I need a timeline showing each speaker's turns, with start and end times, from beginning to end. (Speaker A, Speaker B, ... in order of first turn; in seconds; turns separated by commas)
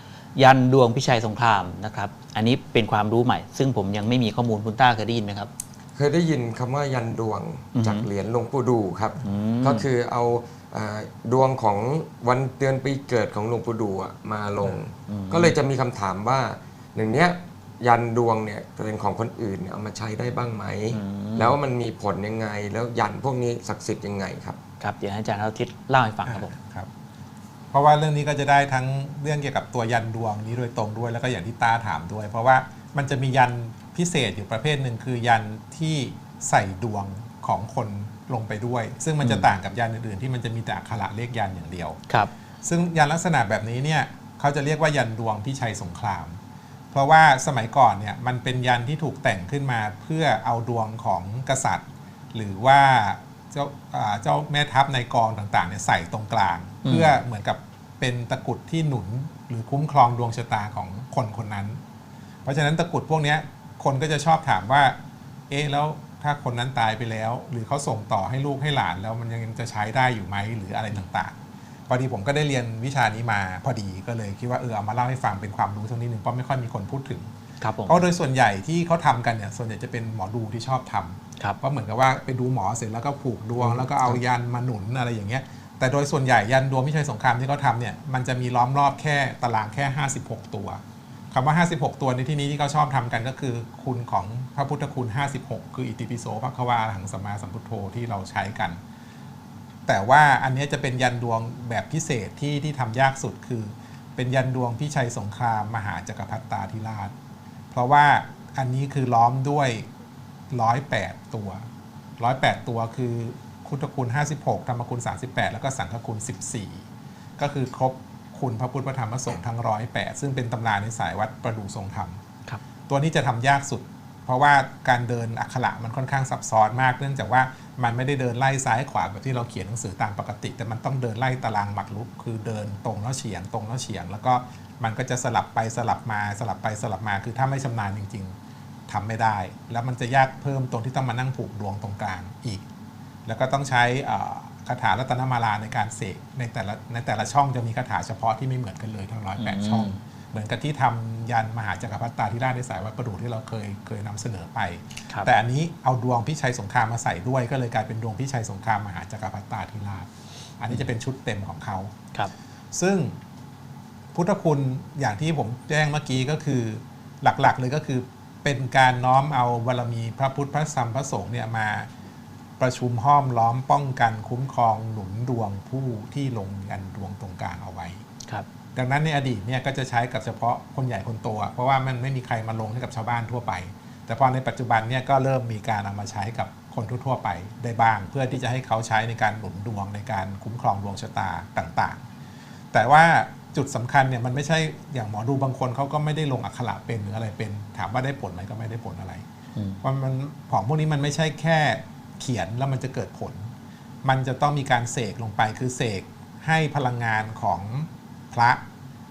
Speaker A: 0.3-5.5, Speaker B: 6.0-24.6, Speaker A: 7.8-8.1, Speaker A: 9.2-9.9, Speaker A: 15.1-15.6, Speaker A: 20.9-21.6, Speaker A: 24.8-26.6, Speaker C: 26.2-26.9, Speaker C: 27.7-42.0, Speaker A: 39.2-39.5, Speaker C: 42.6-46.4, Speaker C: 46.9-61.8, Speaker A: 56.8-57.2, Speaker C: 62.5-65.0, Speaker C: 65.5-71.4, Speaker C: 71.9-77.3, Speaker A: 77.6-78.1, Speaker C: 77.9-98.8, Speaker A: 83.6-84.2, Speaker C: 99.9-107.1, Speaker C: 107.7-109.9, Speaker C: 110.5-111.6, Speaker C: 112.2-116.9, Speaker C: 117.4-122.2, Speaker C: 122.9-138.3, Speaker C: 138.9-142.7, Speaker C: 143.3-161.9, Speaker A: 149.4-150.0, Speaker C: 162.7-163.2, Speaker C: 164.1-171.9, Speaker C: 172.6-178.0, Speaker C: 178.8-192.0, Speaker C: 192.7-199.2, Speaker A: 199.6-199.8, Speaker C: 199.8-203.5, Speaker C: 204.0-208.6